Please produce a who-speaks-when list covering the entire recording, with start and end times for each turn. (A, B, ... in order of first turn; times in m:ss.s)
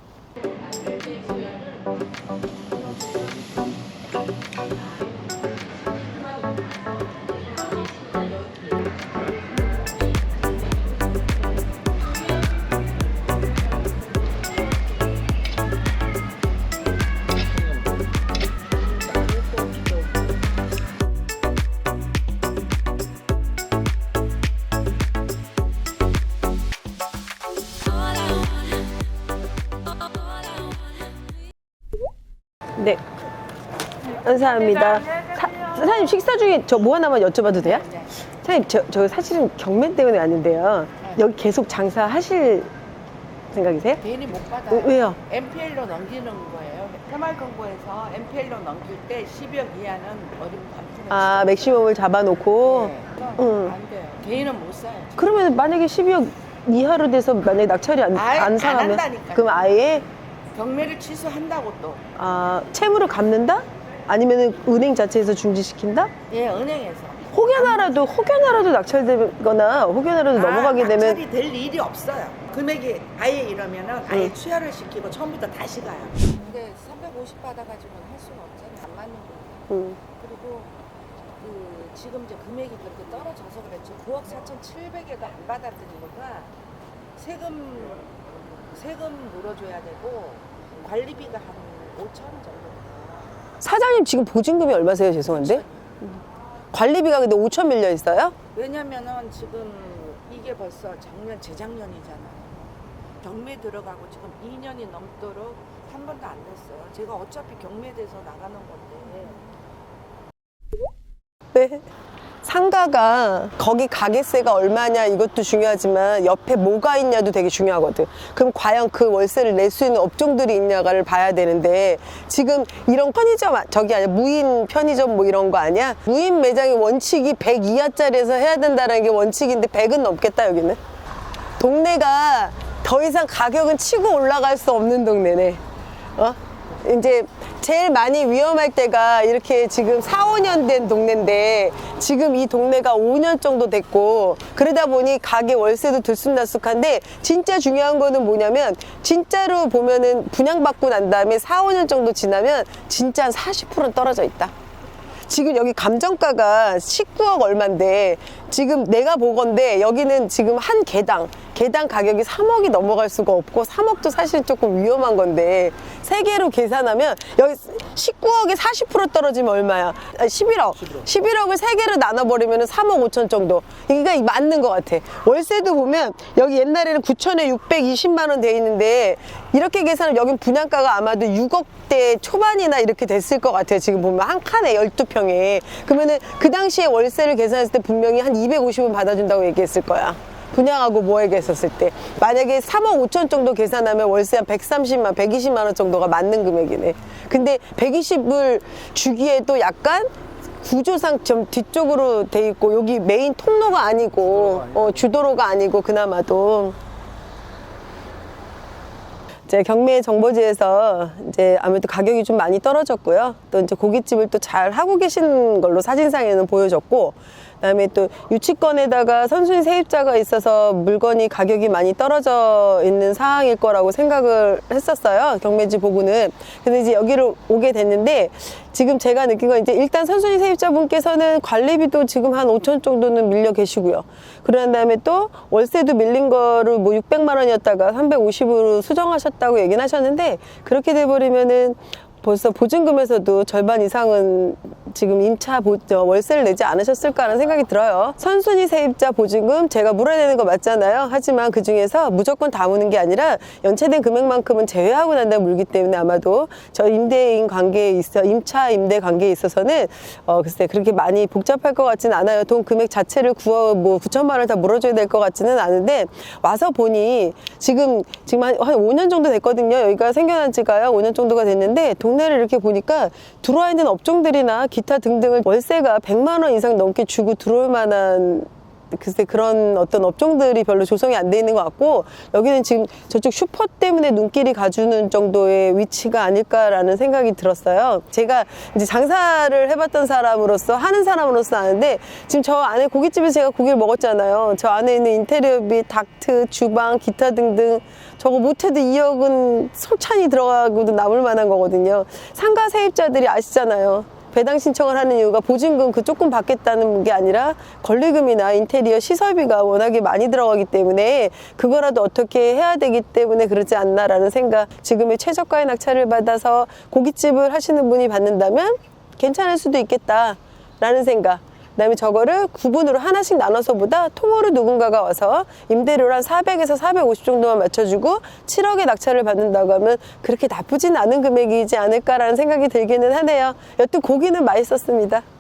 0:00.6-0:01.7 A
0:32.8-0:33.0 B
0:34.1-0:42.7 B
0:37.5-0:38.2 A
0:43.5-0:44.0 B
0:44.0-0:52.0 A
0:44.7-0:45.2 B
0:51.1-0:53.7 B
0:52.6-0:55.2 A
0:55.2-1:00.1 B
0:58.1-1:00.0 A
1:00.5-1:02.1 A
1:02.2-1:06.1 B
1:06.3-1:07.9 A
1:07.3-1:11.2 B
1:10.4-1:20.7 A
1:19.7-1:20.0 B
1:21.4-1:26.5 A
1:27.2-1:33.4 A
1:33.6-1:35.6 B
1:35.2-1:36.0 A
1:36.7-1:38.4 B
1:38.6-1:49.4 A
1:51.5-1:51.8 B
1:52.4-2:10.8 B
2:11.6-2:15.6 B
2:16.2-2:34.5 B
2:35.3-3:20.1 B
3:20.6-3:26.8 B
3:29.5-5:35.2 B